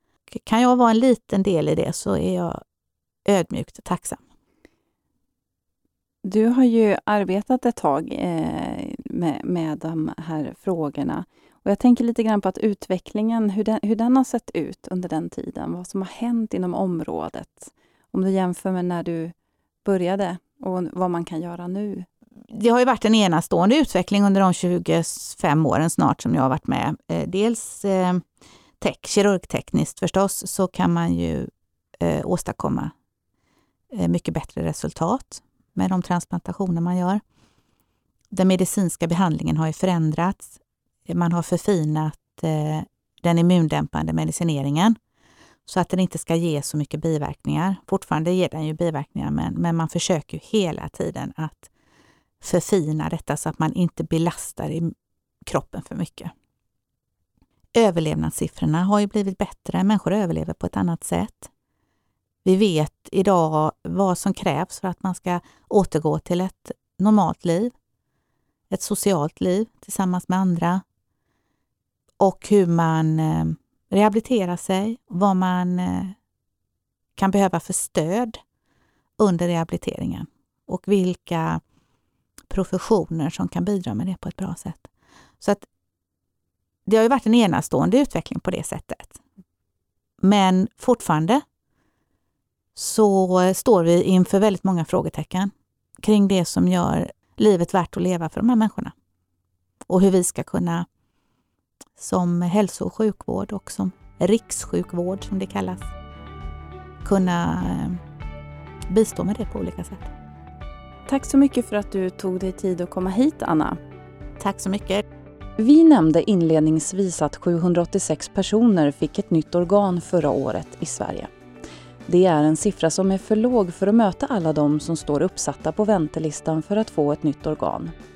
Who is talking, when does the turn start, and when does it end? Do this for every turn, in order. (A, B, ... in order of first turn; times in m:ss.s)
0:00.3-0:02.6 A
0:03.2-0:04.2 A
0:06.2-0:22.1 B
0:22.5-0:28.2 A
0:28.8-0:32.9 A
0:33.9-0:37.2 A
0:38.3-0:45.0 A
0:45.6-0:51.7 A
0:52.4-0:54.9 A
0:55.4-0:56.3 A
0:57.7-1:01.5 A
1:02.4-1:07.7 A
1:08.7-1:10.8 A
1:12.2-1:16.2 A
1:17.2-1:18.4 A
1:19.2-1:21.6 A
1:22.5-1:24.9 A
1:25.4-1:25.6 A
1:26.8-1:29.2 A
1:30.2-1:31.4 A
1:32.7-1:38.9 A
1:39.9-1:40.9 A
1:42.0-1:45.9 A
1:47.0-1:48.0 A
1:48.9-1:50.1 A
1:51.1-1:53.8 B
1:54.4-1:55.0 A
1:55.6-2:01.3 B
2:02.0-2:07.9 B